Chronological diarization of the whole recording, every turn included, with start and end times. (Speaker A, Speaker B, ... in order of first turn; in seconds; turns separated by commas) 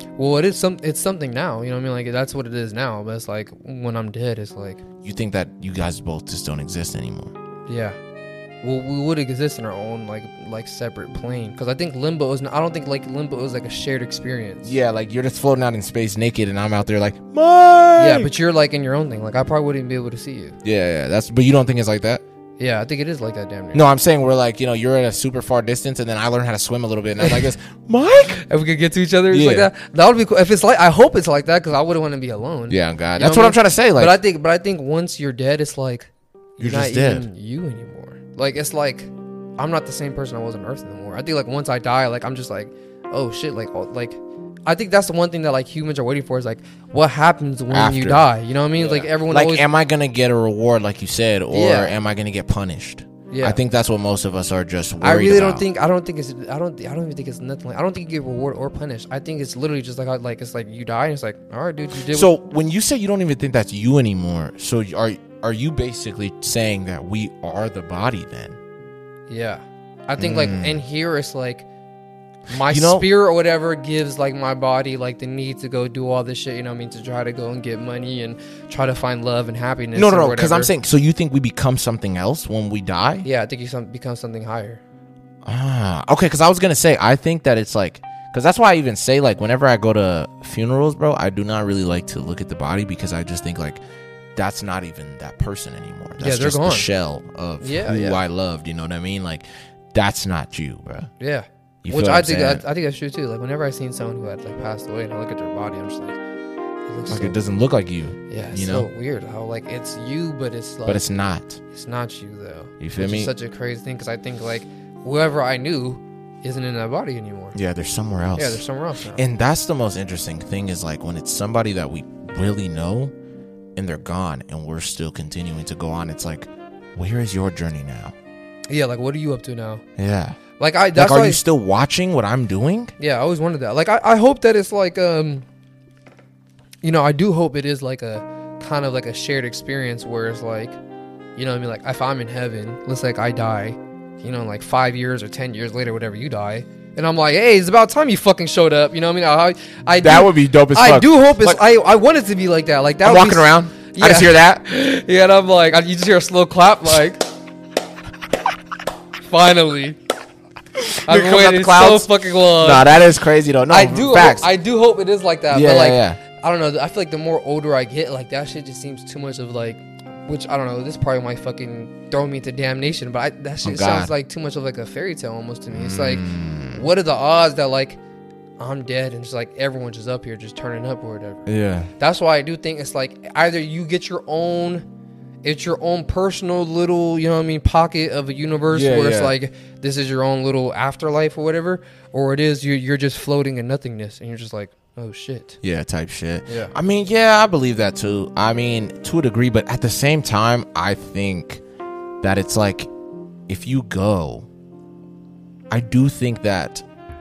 Speaker A: 0.2-4.8, Speaker B: 5.0-7.3, Speaker A: 7.7-8.0, Speaker A: 8.6-14.7, Speaker B: 14.6-18.3, Speaker A: 18.0-20.6, Speaker B: 20.6-22.2, Speaker A: 22.6-23.8, Speaker B: 23.7-28.4, Speaker A: 28.4-49.7, Speaker B: 29.3-29.7, Speaker B: 32.7-34.2, Speaker B: 36.6-37.3, Speaker B: 47.7-55.6, Speaker A: 51.5-51.9, Speaker A: 53.3-53.6, Speaker A: 55.0-62.3, Speaker B: 62.1-68.6, Speaker A: 69.3-71.7, Speaker B: 70.2-70.8, Speaker A: 72.5-80.7, Speaker B: 72.7-73.1, Speaker B: 80.0-83.3, Speaker A: 83.2-84.8, Speaker B: 85.5-93.8, Speaker B: 94.3-101.1, Speaker A: 96.2-96.9, Speaker A: 97.6-98.2, Speaker A: 101.2-106.2, Speaker B: 101.8-102.6, Speaker A: 106.9-107.4, Speaker B: 107.1-108.9, Speaker A: 108.3-111.1, Speaker B: 110.9-111.6, Speaker A: 111.7-117.6, Speaker B: 112.8-113.3, Speaker B: 117.5-123.1, Speaker A: 118.4-119.2, Speaker B: 123.8-128.1, Speaker A: 128.7-129.8, Speaker B: 130.0-130.4, Speaker A: 130.6-131.4, Speaker B: 130.9-132.9, Speaker A: 133.0-135.4, Speaker A: 136.8-140.8, Speaker A: 141.4-157.3, Speaker B: 149.9-151.6, Speaker B: 153.0-154.6, Speaker A: 159.3-160.0, Speaker B: 160.8-164.5, Speaker A: 161.1-163.0, Speaker A: 163.7-178.0, Speaker B: 165.5-166.2, Speaker B: 173.6-174.1, Speaker B: 175.7-176.9, Speaker A: 178.6-181.4, Speaker B: 181.5-181.9, Speaker A: 182.0-184.8, Speaker A: 185.4-195.6, Speaker B: 188.7-189.3, Speaker B: 195.6-201.6, Speaker A: 196.5-196.7, Speaker B: 202.2-202.9, Speaker B: 203.5-204.5, Speaker B: 205.7-206.8